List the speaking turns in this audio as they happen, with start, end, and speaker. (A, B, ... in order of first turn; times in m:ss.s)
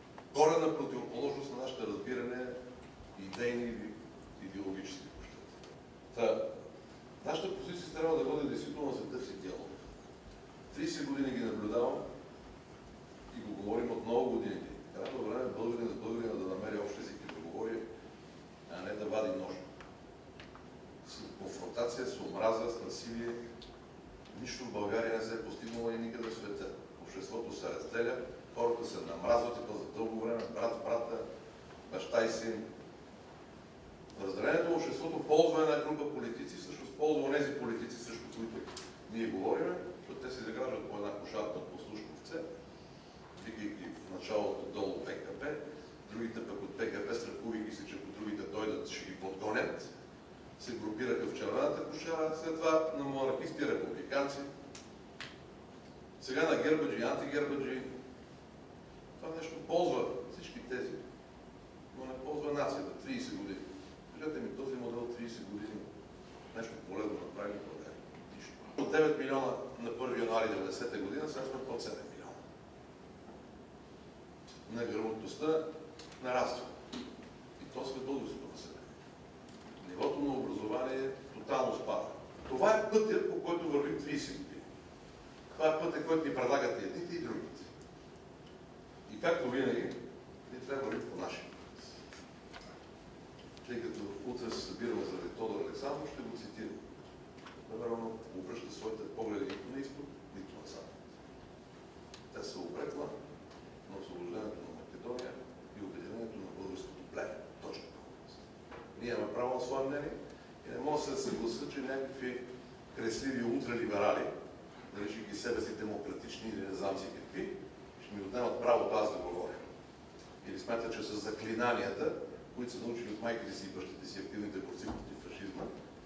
0:00.3-0:02.6 A
0:03.2-0:05.5 A
0:06.1-0:06.5 A
0:07.2-0:09.7 A
0:10.7-0:12.0 A
0:13.3-0:17.8 A
0:18.7-0:19.6 A
0:21.0-0:23.4 A
0:24.3-0:31.2 A
0:31.9-0:32.6 A
0:34.2-0:42.4 A
0:43.3-0:49.9 A
0:50.6-0:54.5 A
0:56.2-0:57.9 A
0:59.2-1:01.0 A
1:01.9-1:05.9 A
1:06.5-1:12.4 A
1:14.7-1:15.6 A
1:16.2-1:16.7 A
1:17.6-1:18.9 A
1:19.8-1:24.7 A
1:25.5-1:27.7 A
1:29.1-1:30.0 A
1:30.5-1:31.7 A
1:33.6-1:36.8 A
1:37.6-1:41.0 A
1:42.3-1:43.1 A
1:43.9-1:48.4 A
1:49.0-1:54.3 A
1:54.9-1:59.6 A
2:00.4-2:05.7 A